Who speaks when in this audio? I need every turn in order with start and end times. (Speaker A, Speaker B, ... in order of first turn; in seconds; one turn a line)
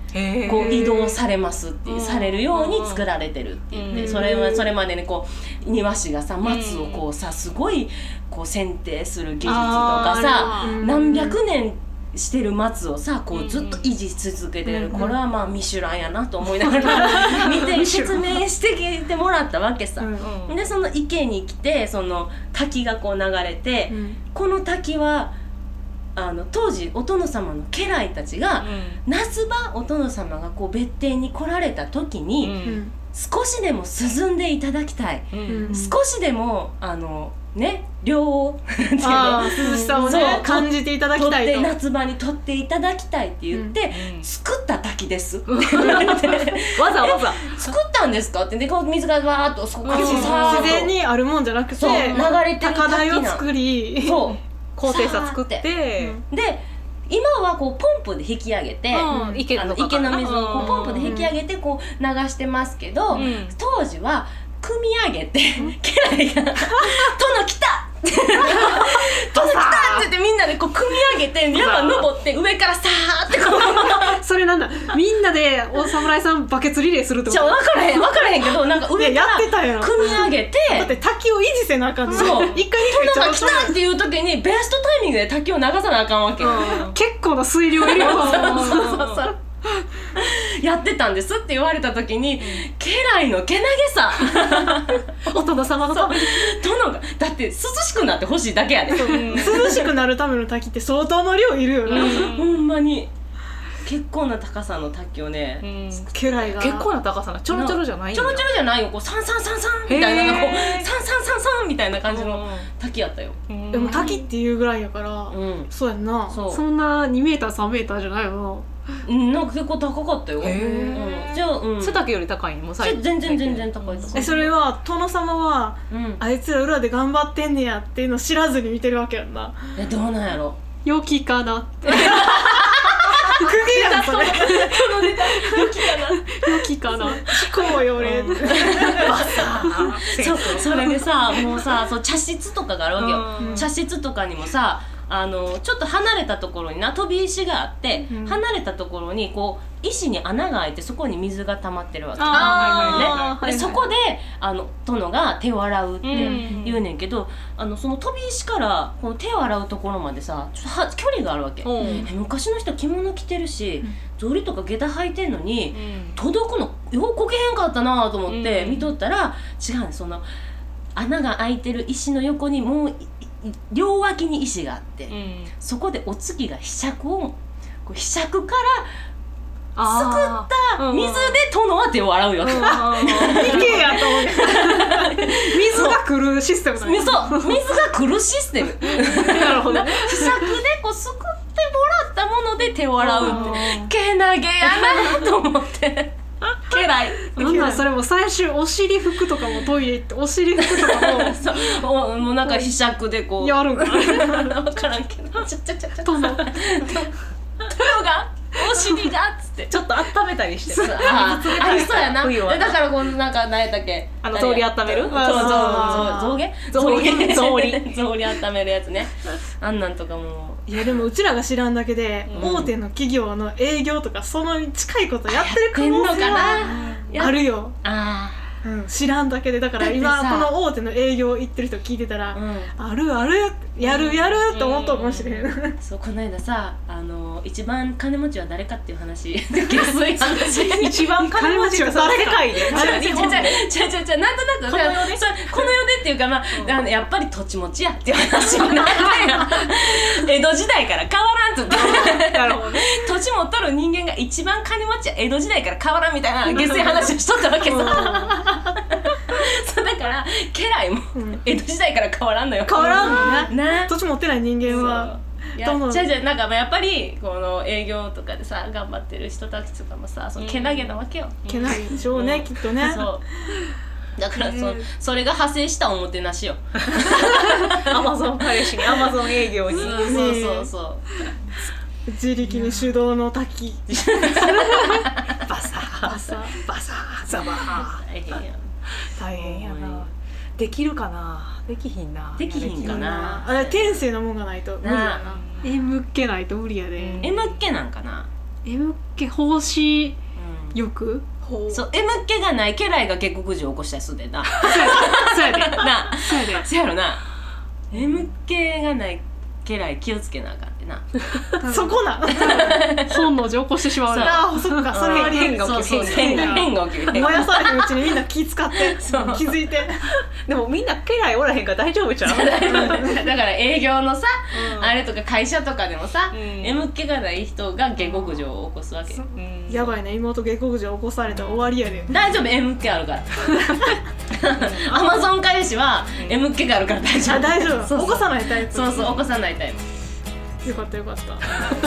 Speaker A: 0.1-1.2
Speaker B: 0.4-25.3
Speaker A: 1.9-3.0
Speaker A: 3.7-4.6
Speaker C: 3.9-4.7
Speaker A: 6.4-7.1
Speaker A: 9.4-10.8
Speaker C: 9.5-11.4
Speaker A: 13.3-13.9
Speaker C: 14.8-15.1
Speaker A: 16.6-17.9
Speaker C: 20.0-20.3
Speaker A: 20.2-20.6
Speaker C: 23.9-24.2
Speaker B: 26.1-50.9
Speaker A: 28.6-29.0
Speaker A: 32.4-32.8
Speaker C: 32.6-32.9
Speaker A: 35.3-35.8
Speaker C: 35.5-35.9
Speaker C: 39.0-41.7
Speaker A: 39.6-40.4
Speaker C: 43.5-43.8
Speaker A: 43.9-44.3
Speaker A: 45.5-47.7
Speaker A: 49.8-50.8
Speaker C: 49.9-54.4
Speaker B: 51.8-53.5
Speaker A: 51.9-52.4
Speaker B: 54.0-55.7
Speaker A: 54.8-56.2
Speaker C: 56.0-56.2
Speaker B: 56.3-74.2
Speaker A: 58.9-61.1
Speaker C: 59.1-59.4
Speaker C: 60.6-61.3
Speaker A: 63.1-63.6
Speaker C: 68.5-68.7
Speaker C: 69.3-70.1
Speaker C: 71.5-72.1
Speaker C: 73.7-78.2
Speaker B: 77.3-80.9
Speaker C: 78.9-83.8
Speaker A: 80.0-80.3
Speaker A: 82.1-82.6
Speaker B: 82.1-86.9
Speaker C: 86.4-89.0
Speaker A: 86.4-87.0
Speaker B: 87.8-89.4
Speaker A: 87.9-89.2
Speaker B: 90.2-95.3
Speaker A: 92.4-92.7
Speaker A: 95.3-96.2
Speaker C: 95.3-95.7
Speaker B: 95.9-99.8
Speaker A: 98.9-99.9
Speaker C: 99.0-102.3
Speaker A: 101.8-102.7
Speaker B: 101.9-103.1
Speaker B: 103.8-106.6
Speaker A: 105.6-108.5
Speaker C: 106.1-106.9
Speaker B: 107.5-114.2
Speaker A: 109.9-110.9
Speaker A: 112.0-112.7
Speaker A: 113.5-114.2
Speaker C: 113.7-118.7
Speaker B: 115.3-115.7
Speaker B: 116.3-116.6
Speaker B: 119.0-122.1
Speaker A: 120.4-124.4
Speaker C: 120.4-121.1
Speaker B: 122.8-124.5
Speaker C: 124.1-129.7
Speaker B: 125.9-126.2
Speaker B: 129.8-130.6
Speaker C: 130.8-139.5
Speaker B: 131.8-170.3
Speaker A: 137.5-141.6
Speaker A: 143.0-143.7
Speaker C: 143.4-143.7
Speaker C: 148.1-148.4
Speaker A: 152.2-153.5
Speaker C: 152.3-153.9
Speaker A: 156.0-156.8
Speaker C: 156.1-156.7
Speaker A: 161.6-162.1
Speaker C: 161.8-162.1
Speaker A: 165.7-166.2
Speaker A: 168.3-168.9
Speaker B: 170.9-178.9
Speaker A: 175.1-175.5
Speaker A: 179.8-181.4
Speaker B: 179.8-186.0
Speaker A: 182.4-184.7
Speaker C: 182.5-187.8
Speaker B: 186.8-197.8
Speaker A: 188.9-190.5
Speaker A: 193.0-193.8
Speaker C: 193.0-193.9
Speaker C: 194.7-195.2
Speaker C: 197.3-201.4
Speaker A: 197.4-197.8
Speaker B: 200.6-209.8
Speaker C: 202.4-202.7
Speaker C: 203.4-204.5
Speaker C: 206.0-206.8
Speaker A: 209.7-212.8
Speaker B: 210.7-221.1
Speaker C: 210.7-211.7
Speaker A: 214.2-216.2
Speaker C: 215.1-216.4
Speaker A: 216.7-217.9
Speaker C: 220.7-227.8
Speaker A: 222.3-222.7
Speaker B: 222.3-222.7
Speaker B: 225.3-228.6
Speaker A: 226.5-227.2
Speaker C: 228.6-235.8
Speaker B: 229.8-230.6
Speaker B: 232.3-232.7
Speaker A: 233.8-235.5
Speaker B: 235.8-241.0
Speaker A: 240.7-243.6
Speaker C: 241.2-243.5
Speaker B: 242.6-263.9
Speaker A: 244.7-245.7
Speaker A: 246.5-246.8
Speaker A: 251.7-252.9
Speaker A: 256.5-257.1
Speaker C: 257.6-258.4
Speaker C: 261.1-261.4
Speaker C: 262.6-266.1
Speaker A: 262.8-263.5
Speaker B: 264.6-273.2
Speaker A: 270.4-272.1
Speaker C: 271.5-273.1
Speaker B: 274.2-277.8
Speaker C: 274.4-274.8
Speaker A: 276.9-280.3
Speaker B: 278.8-281.2
Speaker C: 279.7-280.7
Speaker C: 282.1-284.6
Speaker A: 282.5-282.9
Speaker B: 283.9-285.1
Speaker A: 285.3-288.4
Speaker C: 286.0-286.6
Speaker B: 287.3-288.7
Speaker A: 289.1-293.1
Speaker B: 289.3-290.1
Speaker B: 292.4-294.0
Speaker C: 292.8-297.3
Speaker B: 294.8-295.2
Speaker A: 295.3-295.7
Speaker A: 297.0-297.6
Speaker B: 297.2-298.3
Speaker C: 298.7-300.2
Speaker B: 300.4-300.8
Speaker C: 300.8-301.2
Speaker A: 301.4-301.8
Speaker B: 301.7-307.2
Speaker C: 304.6-306.6
Speaker B: 307.9-311.3
Speaker C: 311.6-320.1
Speaker B: 312.4-313.3
Speaker A: 313.1-317.5
Speaker B: 314.1-318.0
Speaker B: 318.9-319.5
Speaker A: 320.4-323.2
Speaker B: 322.2-329.2
Speaker C: 322.7-323.2
Speaker A: 324.5-325.0
Speaker A: 326.3-326.9
Speaker A: 328.0-328.4
Speaker A: 329.3-329.9
Speaker C: 329.7-332.1
Speaker B: 332.1-339.8
Speaker A: 334.6-335.1
Speaker A: 336.2-336.4
Speaker C: 337.2-339.2
Speaker C: 340.6-341.6